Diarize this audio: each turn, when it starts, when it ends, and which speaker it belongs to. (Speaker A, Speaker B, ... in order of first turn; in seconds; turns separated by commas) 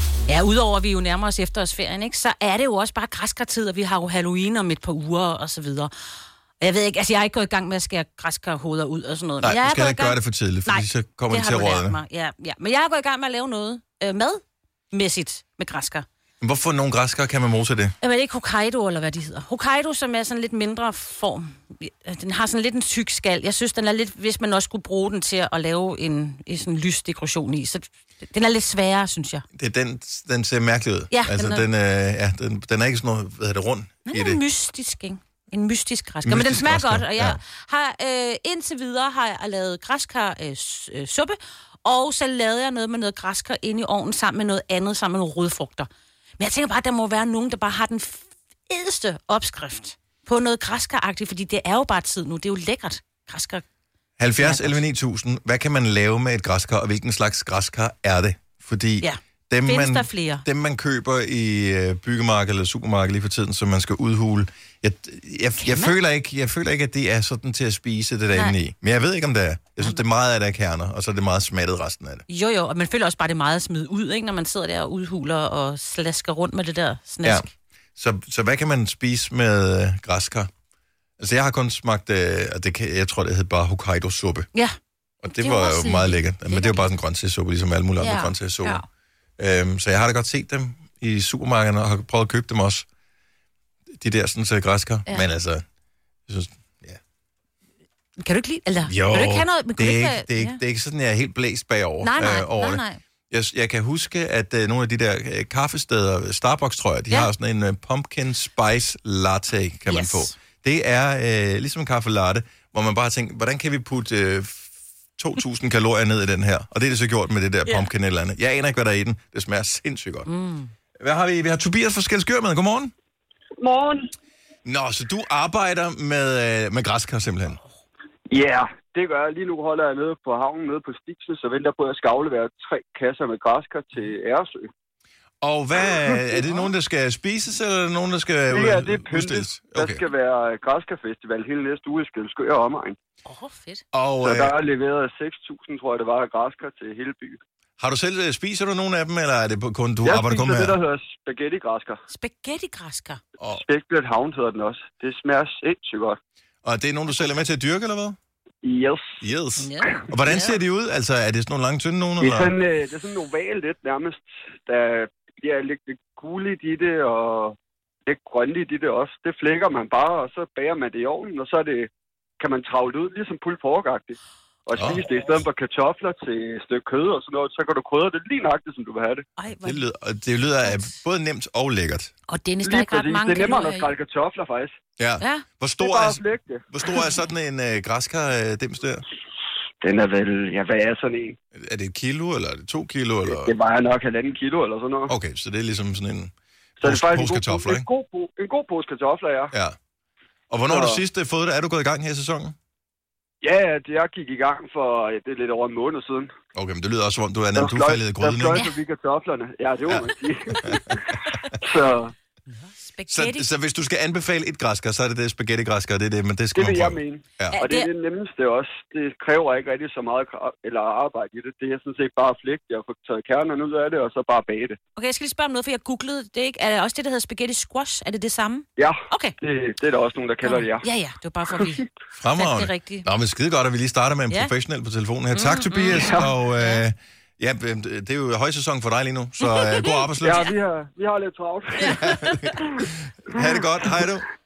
Speaker A: 0.3-5.9, Speaker A: 6.6-16.0, Speaker B: 9.4-12.0, Speaker B: 16.4-17.9, Speaker A: 18.0-29.4, Speaker B: 29.5-34.4, Speaker A: 31.1-31.6, Speaker A: 34.0-45.9, Speaker B: 36.2-37.4, Speaker A: 46.4-53.6, Speaker B: 54.2-72.2, Speaker A: 54.4-54.8, Speaker A: 59.0-60.4, Speaker A: 65.6-65.9, Speaker A: 72.3-77.5, Speaker B: 77.2-80.5, Speaker B: 81.2-84.5, Speaker B: 85.2-88.8, Speaker A: 85.3-86.9, Speaker A: 88.0-88.8, Speaker B: 89.4-92.8, Speaker B: 93.9-95.6, Speaker B: 96.3-97.0, Speaker A: 98.2-100.6, Speaker B: 98.9-120.3, Speaker A: 102.0-103.0, Speaker A: 109.9-110.3, Speaker A: 120.3-120.7, Speaker B: 121.0-122.9, Speaker C: 123.6-124.1, Speaker B: 124.6-127.6, Speaker C: 128.3-134.7, Speaker B: 135.4-140.0, Speaker C: 135.8-136.2, Speaker C: 138.5-143.0, Speaker A: 143.2-143.8, Speaker B: 143.9-144.5, Speaker C: 144.2-147.4, Speaker B: 147.8-150.8, Speaker C: 150.0-152.0, Speaker A: 152.1-153.2, Speaker C: 153.5-156.2, Speaker B: 156.6-158.2, Speaker C: 158.6-159.2, Speaker B: 159.2-162.5, Speaker A: 159.6-160.6, Speaker C: 162.2-167.6, Speaker C: 168.1-179.2, Speaker B: 174.7-175.0, Speaker A: 179.4-179.8, Speaker B: 179.6-182.1, Speaker A: 180.6-180.9, Speaker A: 182.3-183.9, Speaker C: 182.6-184.7, Speaker B: 185.0-189.0, Speaker A: 185.2-185.4, Speaker C: 185.8-186.9, Speaker C: 189.8-191.3, Speaker B: 191.5-193.5, Speaker C: 193.2-195.1, Speaker B: 195.1-197.8, Speaker C: 196.8-199.5, Speaker B: 200.5-202.5, Speaker C: 200.7-201.0, Speaker C: 203.4-206.3, Speaker B: 206.5-208.7, Speaker C: 207.6-212.1, Speaker A: 212.5-213.5, Speaker B: 213.1-217.6, Speaker C: 216.5-224.8, Speaker A: 217.5-217.9, Speaker A: 224.9-229.3, Speaker C: 228.8-230.9, Speaker A: 230.4-233.1, Speaker B: 232.2-240.5, Speaker A: 235.3-236.8, Speaker A: 239.5-240.0, Speaker C: 240.2-243.4, Speaker B: 241.8-244.2